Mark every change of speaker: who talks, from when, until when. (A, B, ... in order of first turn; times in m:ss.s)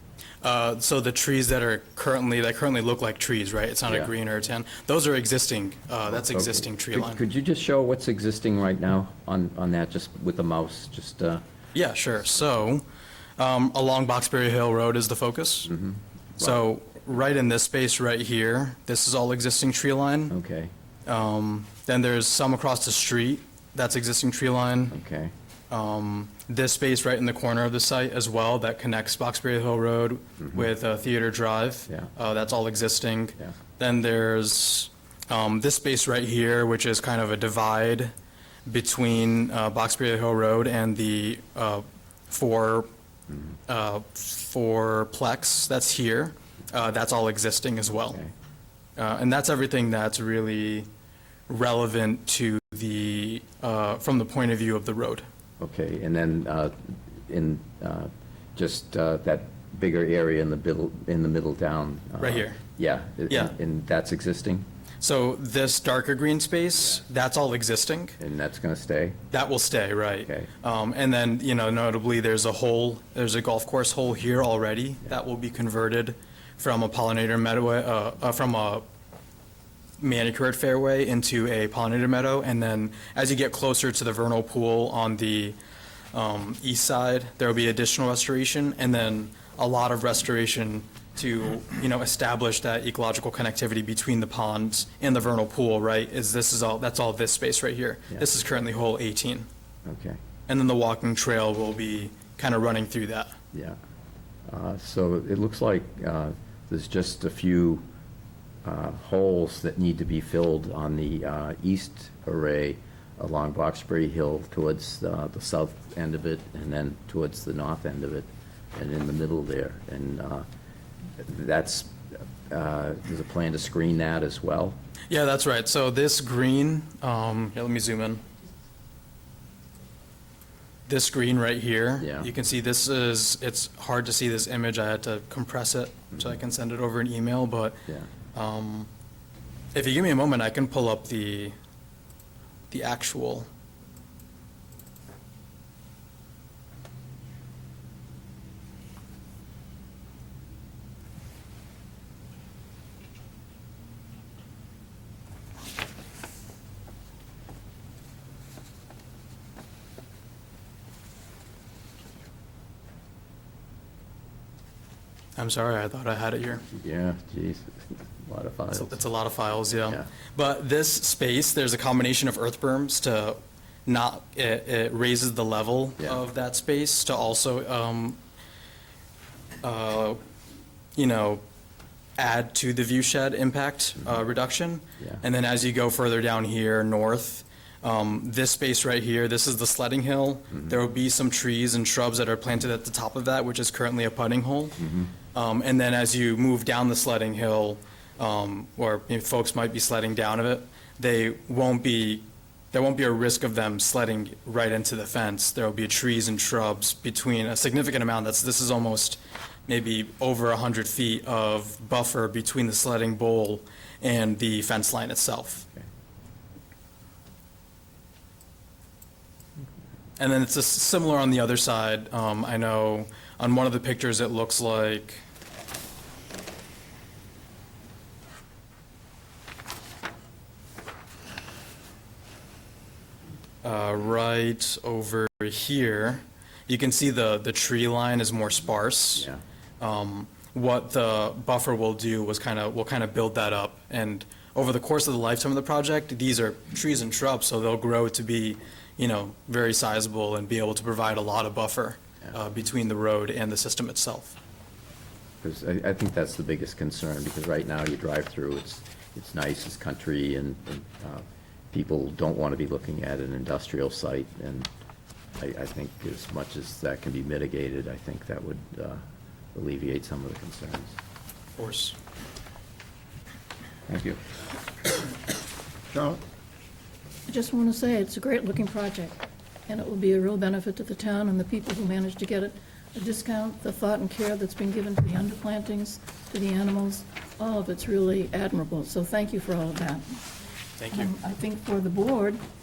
0:00.4-0:07.2 A
0:06.1-0:11.4 B
0:11.7-0:12.8 A
0:13.4-0:15.7 A
0:15.6-0:16.6 B
0:16.4-0:20.3 A
0:20.3-0:20.7 B
0:21.0-0:24.9 A
0:24.9-0:25.3 B
0:25.7-0:38.1 A
0:38.6-0:42.9 A
0:43.7-0:48.2 A
0:49.0-0:50.9 A
0:51.5-0:55.2 A
0:55.6-1:04.6 B
1:02.2-1:02.6 A
1:05.0-1:08.2 A
1:08.2-1:09.2 B
1:09.3-1:18.8 A
1:10.2-1:10.5 B
1:20.0-1:25.6 A
1:26.1-1:39.5 A
1:39.8-1:40.2 B
1:40.5-1:43.4 A
1:43.5-1:43.8 B
1:44.5-1:47.8 B
1:48.6-2:00.4 B
2:01.2-2:04.8 B
2:05.1-2:08.2 A
2:10.9-2:17.8 A
2:12.0-2:12.3 B
2:18.3-2:18.9 A
2:19.7-2:21.5 A
2:22.7-2:23.5 A
2:45.4-2:46.6 A
2:46.6-2:49.0 B
2:48.7-2:58.2 A
2:59.6-3:00.2 A
3:01.0-3:01.4 A
3:02.2-3:14.8 A
3:05.0-3:05.2 B
3:14.8-3:15.1 B
3:15.3-3:35.6 A
3:40.2-3:45.2 A
3:53.6-3:59.3 A
3:59.2-3:59.4 B
3:59.8-4:14.4 A
4:15.4-4:24.7 B
4:25.4-4:29.0 B
4:29.5-4:31.0 B
4:31.6-4:32.0 A
4:33.9-4:34.2 B
4:37.3-4:50.2 C
4:50.8-4:51.1 A
4:50.9-4:52.4 C